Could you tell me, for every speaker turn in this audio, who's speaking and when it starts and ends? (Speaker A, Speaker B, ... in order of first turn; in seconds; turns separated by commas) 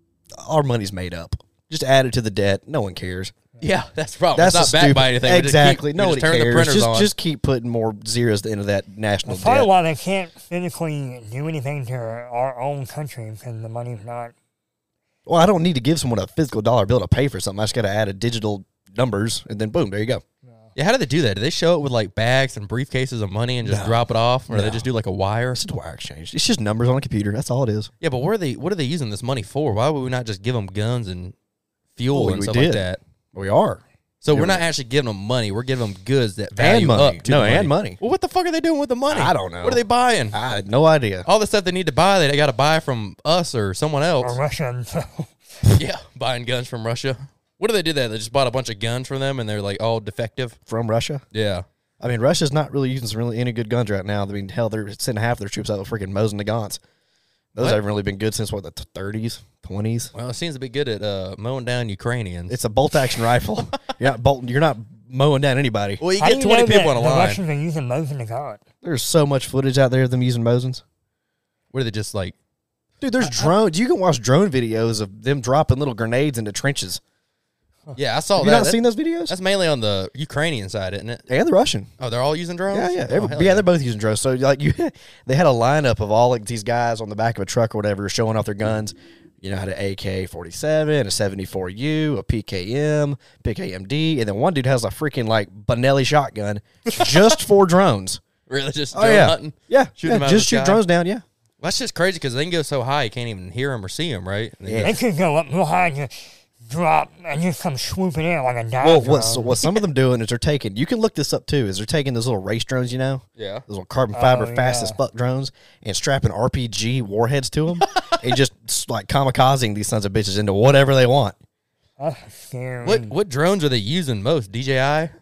Speaker A: 0.4-3.3, Speaker B: 3.6-7.1, Speaker A: 4.4-9.7, Speaker C: 9.3-14.3, Speaker A: 15.3-20.2, Speaker B: 20.8-25.6, Speaker A: 23.6-24.0, Speaker A: 24.5-24.9, Speaker A: 25.5-27.9, Speaker B: 28.0-31.3, Speaker B: 32.0-33.0, Speaker A: 32.1-34.6, Speaker B: 34.2-40.4, Speaker A: 36.5-38.0, Speaker A: 39.1-41.3, Speaker B: 41.3-44.4, Speaker C: 44.2-45.3, Speaker B: 45.7-50.6, Speaker A: 50.7-51.2, Speaker B: 51.3-51.7, Speaker A: 52.0-56.8, Speaker A: 57.5-60.1, Speaker B: 60.1-62.6, Speaker A: 62.5-66.0, Speaker B: 66.0-67.4, Speaker C: 66.2-68.6, Speaker A: 68.8-70.8, Speaker B: 71.7-72.3, Speaker A: 73.0-77.0, Speaker B: 78.0-81.2, Speaker A: 78.4-79.3, Speaker A: 81.3-81.9, Speaker B: 82.0-83.7, Speaker A: 82.7-98.2, Speaker B: 96.9-97.4, Speaker B: 98.5-100.8, Speaker A: 98.9-101.2, Speaker B: 101.6-104.9, Speaker A: 104.7-105.0, Speaker C: 104.8-109.6, Speaker A: 108.8-121.4, Speaker B: 113.4-113.6, Speaker C: 114.1-115.0, Speaker C: 122.0-123.1, Speaker B: 122.8-125.1